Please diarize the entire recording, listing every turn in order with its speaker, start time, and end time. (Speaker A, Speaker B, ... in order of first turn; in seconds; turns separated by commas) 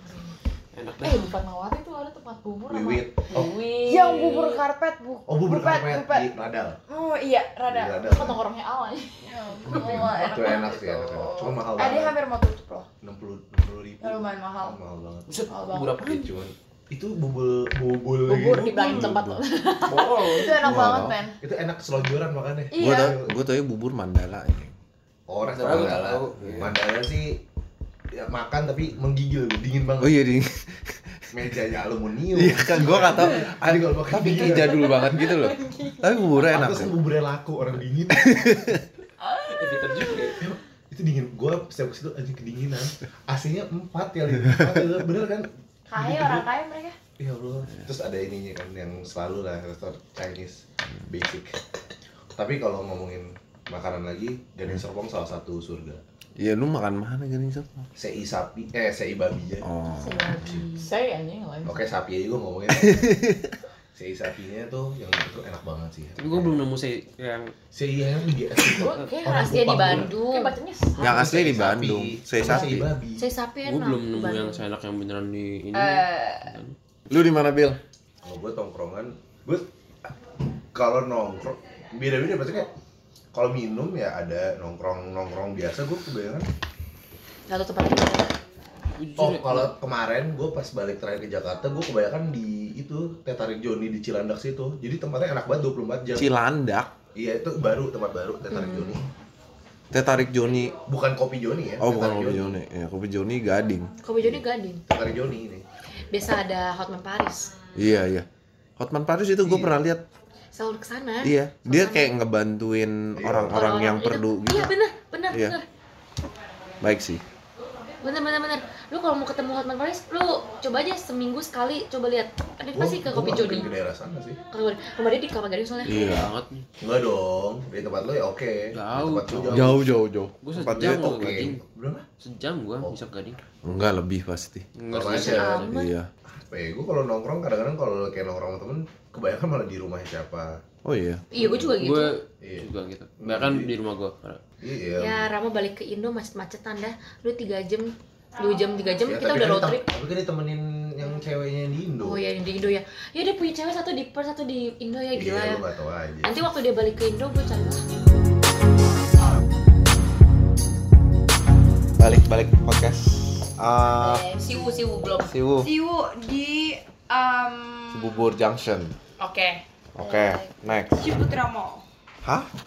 Speaker A: 0.7-1.3, Speaker B: 1.0-4.6, Speaker C: 2.7-3.6, Speaker D: 3.8-6.3, Speaker C: 5.2-6.8, Speaker D: 6.9-8.0, Speaker C: 7.7-8.4, Speaker B: 8.0-9.8, Speaker D: 9.2-12.9, Speaker C: 9.7-12.2, Speaker C: 13.0-15.3, Speaker D: 14.0-14.8, Speaker A: 15.3-16.3, Speaker D: 15.5-15.9, Speaker C: 16.0-19.1, Speaker B: 18.2-20.5, Speaker E: 18.9-19.4, Speaker A: 19.9-20.5, Speaker D: 20.2-21.4, Speaker E: 20.5-21.2, Speaker C: 20.8-23.4, Speaker D: 22.7-23.2, Speaker E: 22.8-24.7, Speaker C: 25.3-27.4, Speaker A: 25.4-26.6, Speaker E: 26.4-26.7, Speaker C: 28.1-30.2, Speaker E: 30.0-31.6, Speaker C: 31.3-35.1, Speaker E: 32.3-37.0, Speaker D: 34.7-36.1, Speaker C: 36.4-38.8, Speaker E: 38.1-38.8, Speaker D: 39.2-40.3, Speaker A: 39.5-40.4, Speaker C: 40.4-46.5, Speaker D: 45.9-47.0, Speaker C: 47.2-51.6, Speaker C: 52.3-56.0, Speaker E: 56.4-57.9, Speaker C: 58.0-59.7, Speaker E: 59.6-60.3, Speaker F: 60.0-60.8, Speaker B: 60.8-61.8, Speaker C: 61.6-63.4, Speaker E: 62.8-63.5, Speaker C: 63.9-66.6, Speaker A: 66.2-67.5, Speaker C: 67.7-70.1, Speaker B: 68.6-71.2, Speaker F: 69.3-70.6, Speaker E: 71.0-72.9, Speaker C: 71.0-73.2, Speaker F: 73.2-74.6, Speaker A: 73.6-76.7, Speaker D: 75.7-76.5, Speaker E: 77.1-77.8, Speaker C: 78.2-80.1, Speaker C: 80.7-82.7, Speaker C: 83.3-86.5, Speaker F: 87.5-88.3, Speaker A: 89.0-89.7, Speaker C: 89.2-96.3, Speaker E: 96.1-96.9, Speaker C: 97.1-99.1, Speaker F: 98.5-98.9, Speaker E: 99.9-100.7, Speaker C: 100.8-102.6, Speaker E: 101.8-103.9, Speaker F: 104.0-104.8, Speaker C: 104.2-105.6, Speaker F: 106.1-107.5, Speaker E: 107.7-108.2, Speaker E: 108.8-110.0, Speaker C: 109.4-109.7, Speaker F: 110.5-112.1, Speaker E: 111.2-114.7, Speaker C: 113.2-113.6, Speaker F: 113.5-115.6, Speaker E: 116.8-117.2, Speaker F: 118.0-123.7, Speaker C: 122.7-124.4, Speaker F: 124.5-126.2, Speaker E: 125.8-126.3, Speaker A: 125.9-126.7, Speaker C: 126.8-129.8, Speaker A: 128.7-129.8, Speaker E: 129.5-131.5, Speaker A: 130.4-131.6, Speaker C: 130.6-132.0, Speaker A: 132.2-133.4, Speaker E: 133.6-134.7, Speaker A: 134.7-135.7, Speaker C: 134.9-135.7, Speaker F: 135.0-135.9, Speaker E: 135.5-136.1, Speaker C: 136.2-140.6, Speaker E: 140.8-141.2, Speaker F: 141.3-142.2, Speaker C: 141.4-141.6, Speaker A: 141.6-144.4, Speaker C: 142.4-142.7, Speaker C: 143.2-143.7, Speaker C: 144.6-145.3, Speaker F: 145.0-149.9, Speaker C: 149.0-152.2, Speaker F: 152.0-155.6, Speaker C: 155.1-156.4, Speaker F: 156.2-157.8, Speaker E: 162.0-164.3, Speaker D: 163.9-168.3, Speaker F: 164.4-165.3, Speaker E: 165.3-165.7, Speaker E: 167.9-168.9, Speaker F: 169.2-169.6, Speaker E: 169.9-171.1, Speaker D: 170.0-171.8, Speaker E: 172.2-172.5